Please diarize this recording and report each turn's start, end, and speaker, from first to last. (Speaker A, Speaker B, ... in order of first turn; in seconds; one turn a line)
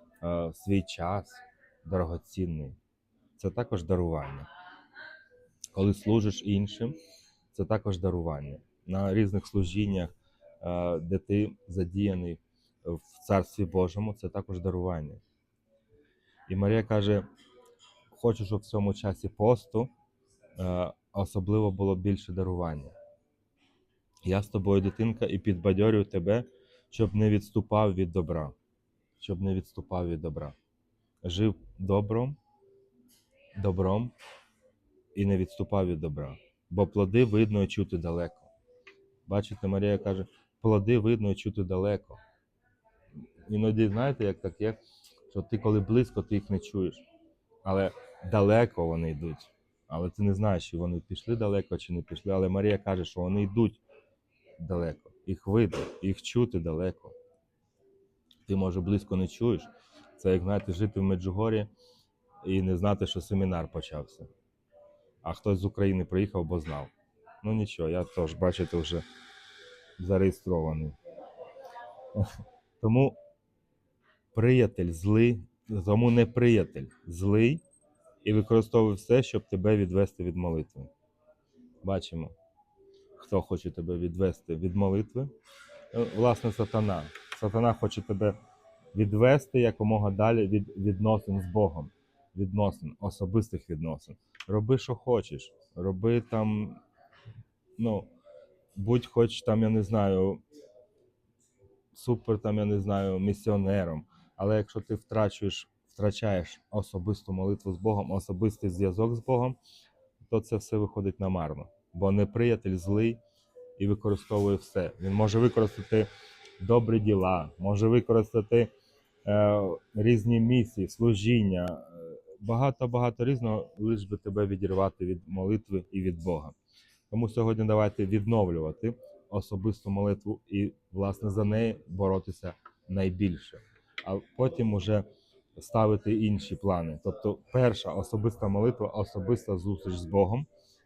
Speaker A: 0.2-2.8
Speaker A: 3.4-4.5
Speaker A: 5.7-7.0
Speaker A: 7.5-15.2
Speaker A: 16.5-17.2
Speaker A: 18.1-19.9
Speaker A: 20.6-22.9
Speaker A: 24.2-28.5
Speaker A: 29.2-30.5
Speaker A: 31.2-32.4
Speaker A: 33.6-34.1
Speaker A: 35.1-38.5
Speaker A: 39.2-42.2
Speaker A: 43.5-44.8
Speaker A: 45.3-47.0
Speaker A: 47.6-53.8
Speaker A: 54.6-57.1
Speaker A: 58.5-61.7
Speaker A: 62.4-64.3
Speaker A: 65.2-66.9
Speaker A: 67.4-69.0
Speaker A: 70.0-71.0
Speaker A: 72.1-73.2
Speaker A: 74.3-77.6
Speaker A: 78.2-80.9
Speaker A: 81.8-82.3
Speaker A: 83.2-85.3
Speaker A: 85.9-88.3
Speaker A: 88.9-96.8
Speaker A: 97.8-98.1
Speaker A: 98.7-100.4
Speaker A: 101.9-109.6
Speaker A: 110.2-113.2
Speaker A: 113.8-118.7
Speaker A: 119.2-126.5
Speaker A: 127.1-140.5